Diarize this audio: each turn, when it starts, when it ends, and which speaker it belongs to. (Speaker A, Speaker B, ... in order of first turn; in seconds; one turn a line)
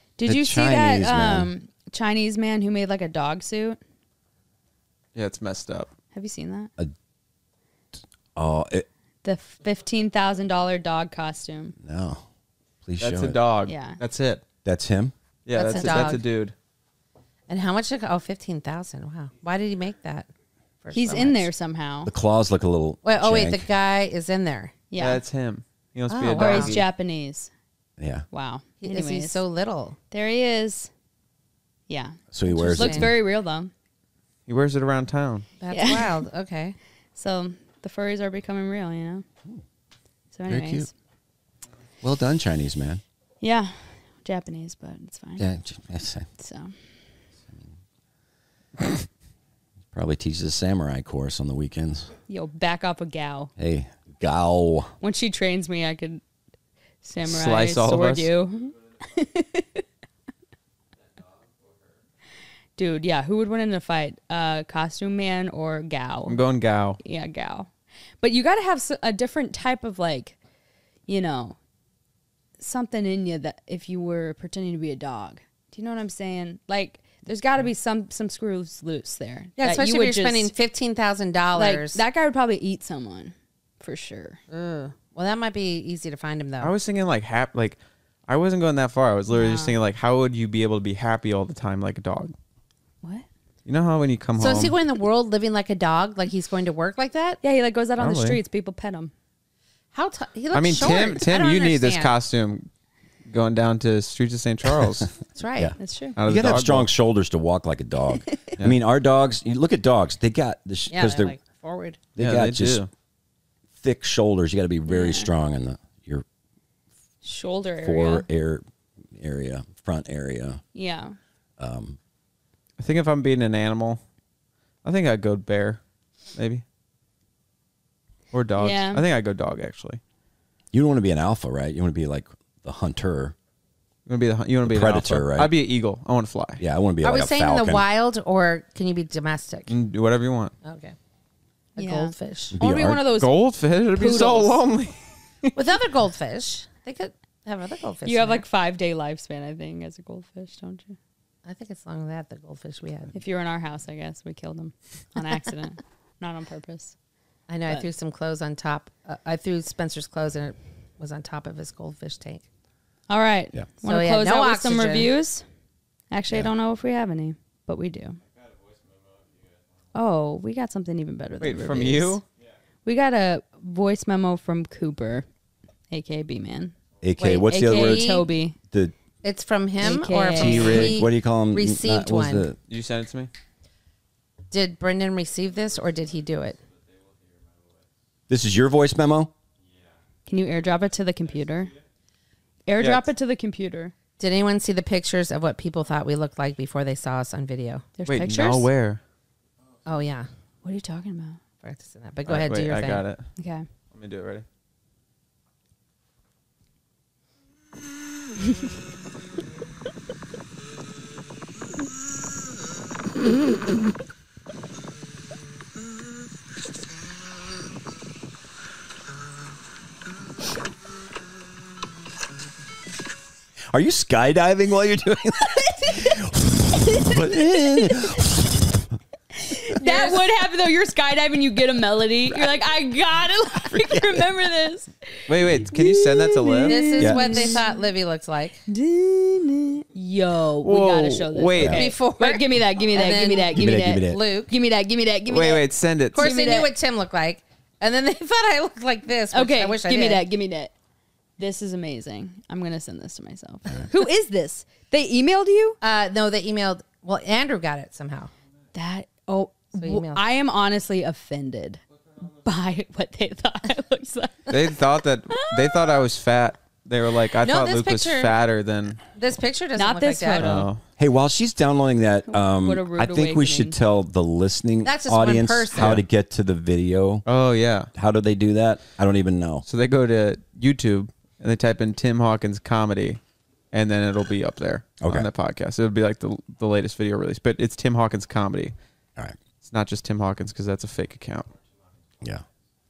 Speaker A: 0.2-3.8
Speaker B: 0.3-1.5
Speaker C: 5.2-5.9
Speaker A: 6.1-6.7
Speaker B: 8.4-8.9
Speaker A: 9.2-11.8
Speaker B: 11.8-12.2
Speaker B: 12.8-13.4
Speaker C: 13.0-14.4
Speaker A: 13.7-14.0
Speaker B: 14.7-16.2
Speaker C: 15.5-16.6
Speaker D: 15.5-16.2
Speaker D: 17.5-20.3
Speaker D: 20.8-21.5
Speaker A: 20.9-22.1
Speaker B: 22.1-23.6
Speaker D: 23.0-24.8
Speaker A: 24.9-25.2
Speaker C: 25.0-26.9
Speaker D: 26.1-26.8
Speaker A: 26.4-27.5
Speaker B: 28.0-28.3
Speaker A: 28.3-29.4
Speaker D: 28.8-30.0
Speaker A: 30.1-30.9
Speaker A: 31.9-33.7
Speaker B: 32.3-33.1
Speaker D: 32.5-33.1
Speaker C: 34.5-35.5
Speaker D: 35.6-36.8
Speaker A: 35.7-36.2
Speaker A: 37.1-39.2
Speaker A: 40.3-40.9
Speaker B: 40.5-40.9
Speaker B: 42.0-43.0
Speaker A: 43.4-45.4
Speaker B: 45.4-46.3
Speaker A: 46.4-46.7
Speaker B: 49.9-52.1
Speaker A: 52.3-53.5
Speaker B: 53.6-54.9
Speaker A: 55.0-56.2
Speaker A: 57.0-59.8
Speaker C: 57.3-58.3
Speaker A: 62.8-66.4
Speaker C: 66.3-67.0
Speaker A: 67.0-67.7
Speaker A: 68.2-70.4
Speaker A: 71.1-71.6
Speaker A: 72.6-80.5
Speaker D: 79.6-82.0
Speaker A: 81.5-84.4
Speaker D: 84.5-86.7
Speaker C: 86.6-92.3
Speaker A: 89.3-89.8
Speaker C: 93.7-94.8
Speaker D: 94.4-97.4
Speaker A: 97.4-99.1
Speaker C: 98.0-98.4
Speaker D: 99.9-102.2
Speaker C: 100.5-102.7
Speaker C: 103.3-105.1
Speaker D: 105.3-105.8
Speaker B: 105.6-111.4
Speaker A: 105.8-106.2
Speaker C: 106.2-106.9
Speaker D: 110.9-112.0
Speaker B: 112.2-112.8
Speaker C: 112.2-112.9
Speaker B: 113.8-116.2
Speaker A: 114.9-115.3
Speaker A: 117.2-118.3
Speaker B: 117.8-120.6
Speaker A: 120.7-121.2
Speaker B: 121.6-122.0
Speaker C: 122.8-124.0
Speaker C: 124.8-125.8
Speaker C: 126.3-126.6
Speaker C: 128.3-130.0
Speaker A: 128.6-129.1
Speaker B: 130.7-133.3
Speaker C: 134.1-136.6
Speaker B: 134.7-135.5
Speaker B: 136.6-137.8
Speaker D: 137.0-139.7
Speaker C: 139.7-140.5
Speaker D: 140.6-140.9
Speaker D: 141.8-142.6
Speaker A: 141.8-143.3
Speaker B: 142.5-143.1
Speaker C: 143.2-145.6
Speaker A: 144.0-144.6
Speaker D: 145.6-148.4
Speaker A: 148.1-151.0
Speaker D: 151.4-153.1
Speaker A: 153.1-156.9
Speaker D: 157.5-162.4
Speaker A: 163.1-165.4
Speaker D: 163.8-165.2
Speaker A: 166.1-168.2
Speaker A: 169.9-172.2
Speaker C: 171.4-172.2
Speaker A: 172.8-175.3
Speaker A: 175.9-178.6
Speaker B: 177.0-178.9
Speaker D: 177.2-178.3
Speaker D: 179.2-182.5
Speaker A: 179.8-180.9
Speaker B: 180.3-182.6
Speaker C: 182.7-183.3
Speaker D: 184.5-186.6
Speaker B: 188.3-189.3
Speaker A: 190.3-191.7
Speaker A: 192.7-193.9
Speaker C: 192.8-193.1
Speaker D: 194.2-197.9
Speaker A: 198.0-198.7
Speaker C: 198.1-199.0
Speaker D: 199.8-200.3
Speaker A: 200.6-201.4
Speaker D: 201.6-203.1
Speaker C: 202.3-203.3
Speaker A: 203.4-203.7
Speaker C: 203.9-204.4
Speaker B: 223.7-228.7
Speaker A: 225.4-226.2
Speaker A: 227.0-227.9
Speaker A: 229.4-234.9
Speaker D: 229.8-230.3
Speaker B: 233.7-234.2
Speaker C: 235.3-237.0
Speaker A: 235.6-237.7
Speaker D: 236.7-238.7
Speaker B: 237.0-237.5
Speaker A: 238.7-246.7
Speaker C: 240.6-241.9
Speaker B: 241.6-241.8
Speaker D: 241.7-244.6
Speaker B: 243.5-244.2
Speaker C: 245.3-246.3
Speaker D: 246.1-250.3
Speaker A: 249.3-250.7
Speaker A: 251.4-255.8
Speaker D: 255.8-258.3
Speaker A: 258.7-261.8
Speaker D: 259.7-260.2
Speaker A: 262.4-264.7
Speaker C: 264.5-269.0
Speaker A: 265.4-266.0
Speaker D: 267.4-268.4
Speaker D: 269.1-270.5
Speaker A: 269.8-270.7
Speaker C: 270.4-270.8
Speaker B: 271.0-277.2
Speaker A: 272.3-273.8
Speaker D: 274.8-276.0
Speaker C: 275.7-276.0
Speaker C: 277.2-277.9
Speaker B: 277.9-279.6
Speaker C: 279.7-283.2
Speaker C: 283.7-288.8
Speaker B: 285.0-285.3
Speaker C: 289.6-291.5